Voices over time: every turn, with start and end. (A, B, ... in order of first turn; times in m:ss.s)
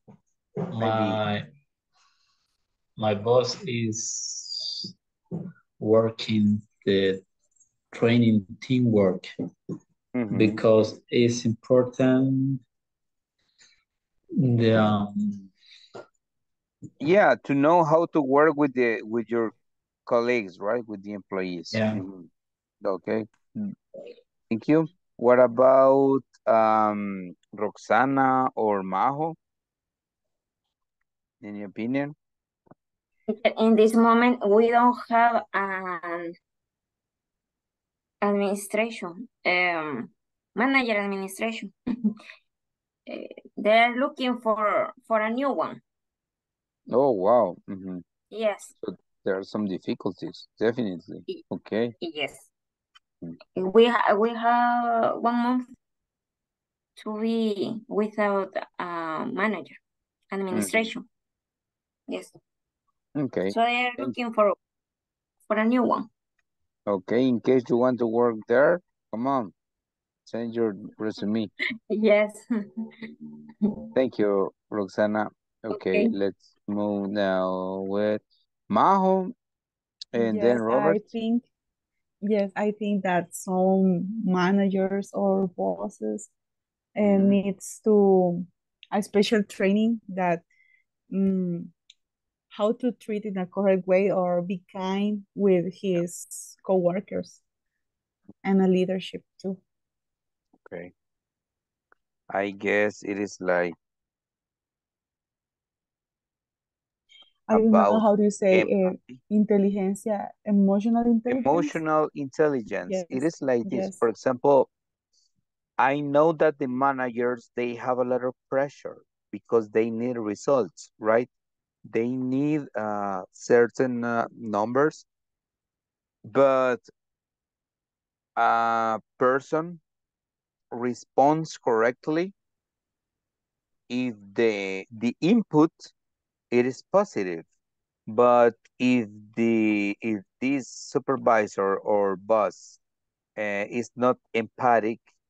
0:00.7-0:01.4 A
0:00.8-0:01.2 B
0:03.0-0:04.9 A
0:05.8-0:07.2 A
0:07.9-0:09.3 A
0:10.1-0:10.6 B
0:10.3-0:12.6 A
0:14.4-0:15.5 A
0:17.0-0:19.5 B
0:20.1-0:22.3 B
0:21.7-0:22.0 A
0:22.8-0:23.7 B
0:24.5-0:29.4 B
0:31.4-0:32.1 B
0:33.3-0:36.3 C
0:38.2-0:42.1 C
0:43.1-0:45.8 C
0:46.9-0:48.0 B
0:48.3-0:48.7 C
0:48.8-0:51.9 B
0:52.0-0:52.5 C
0:53.6-0:55.7 C
0:57.0-0:59.8 C
1:00.3-1:01.0 C
1:00.5-1:00.9 B
1:03.2-1:04.1 B
1:03.5-1:04.6 C
1:05.5-1:06.1 C
1:06.9-1:09.5 B
1:10.3-1:11.5 B
1:11.9-1:13.8 C
1:13.9-1:19.3 B
1:15.7-1:16.1 C
1:20.1-1:21.1 B
1:20.1-1:21.4 D
1:22.2-1:26.3 D
1:27.0-1:30.4 D
1:27.0-1:27.4 B
1:31.1-1:31.7 D
1:32.5-1:37.4 D
1:38.4-1:39.6 D
1:40.6-1:40.9 B
1:42.3-1:43.7 B
1:47.5-1:51.8 D
1:47.5-1:49.2 B
1:51.3-1:54.7 B
1:52.9-1:54.0 D
1:55.8-2:01.3 B
2:01.9-2:05.0 B
2:06.2-2:06.9 B
2:08.4-2:09.8 B
2:10.7-2:12.3 B
2:13.9-2:15.9 B
2:16.5-2:17.4 B
2:18.1-2:22.8 B
2:23.4-2:25.0 B